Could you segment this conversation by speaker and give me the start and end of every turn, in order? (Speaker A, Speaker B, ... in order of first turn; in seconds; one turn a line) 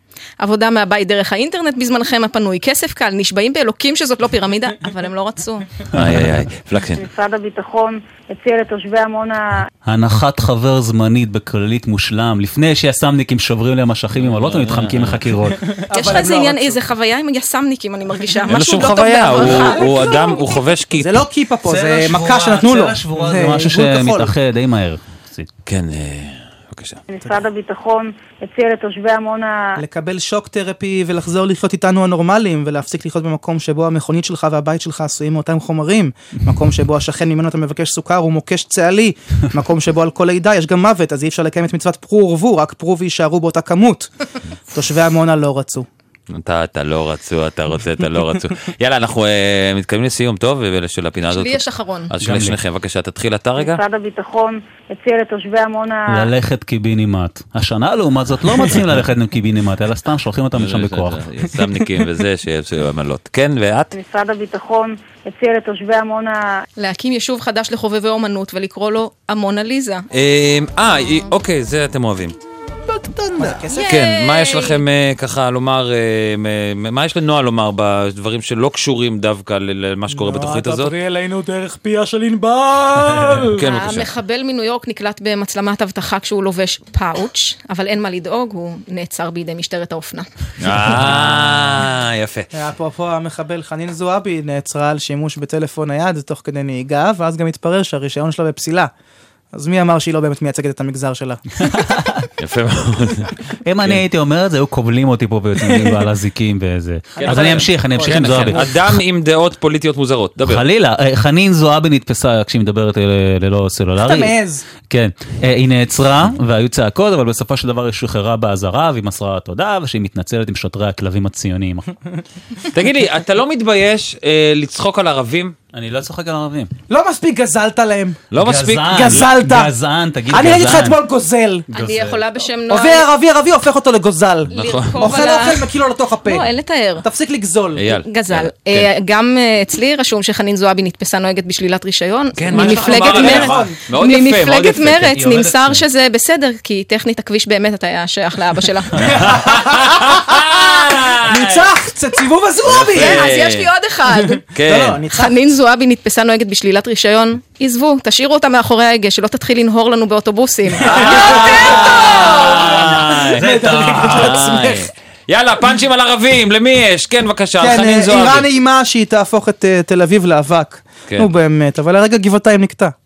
Speaker A: 0.4-5.7
Speaker B: 5.9-7.0
Speaker C: 5.9-6.4
Speaker D: 7.0-9.7
Speaker C: 9.9-15.7
Speaker B: 14.2-15.3
Speaker E: 15.7-16.8
Speaker A: 15.9-20.1
Speaker B: 18.5-21.2
Speaker E: 19.4-20.2
Speaker E: 20.9-24.3
Speaker C: 21.7-25.5
Speaker B: 25.7-27.0
Speaker D: 27.1-29.8
Speaker E: 29.8-44.1
Speaker E: 44.7-45.9
Speaker B: 46.3-53.8
Speaker A: 51.3-52.1
Speaker C: 52.2-52.6
Speaker D: 53.6-56.3
Speaker C: 56.1-61.2
Speaker B: 60.5-63.9
Speaker D: 63.9-66.6
Speaker A: 66.8-70.1
Speaker B: 70.1-72.4
Speaker E: 73.2-73.9
Speaker A: 73.7-74.8
Speaker B: 73.8-81.0
Speaker E: 80.1-83.6
Speaker B: 83.5-84.1
Speaker A: 83.6-90.3
Speaker B: 90.6-92.5
Speaker C: 90.9-91.3
Speaker E: 92.5-98.9
Speaker E: 99.5-101.6
Speaker C: 101.6-102.3
Speaker B: 102.4-104.0
Speaker C: 103.6-109.0
Speaker E: 107.2-108.7
Speaker B: 107.2-110.7
Speaker C: 110.5-121.9
Speaker E: 114.0-114.7
Speaker B: 122.7-125.6
Speaker C: 125.7-126.7
Speaker E: 126.9-128.2
Speaker B: 128.3-129.3
Speaker C: 128.4-131.0
Speaker E: 128.9-129.7
Speaker E: 130.3-131.7
Speaker C: 131.7-132.2
Speaker A: 131.7-133.1
Speaker E: 132.7-136.5
Speaker B: 134.5-135.2
Speaker A: 134.5-135.7
Speaker A: 136.2-137.1
Speaker E: 137.0-137.9
Speaker B: 137.8-138.9
Speaker A: 137.9-149.2
Speaker B: 142.4-145.1
Speaker E: 142.6-143.8
Speaker C: 143.3-143.6
Speaker C: 144.9-145.8
Speaker B: 149.0-151.7
Speaker E: 149.1-153.3
Speaker B: 152.6-153.7
Speaker A: 152.9-154.4
Speaker E: 154.5-155.3
Speaker B: 154.5-155.0
Speaker A: 155.1-162.2
Speaker B: 160.8-168.5
Speaker E: 160.9-164.9
Speaker C: 162.6-162.9
Speaker C: 163.4-164.4
Speaker E: 167.6-172.9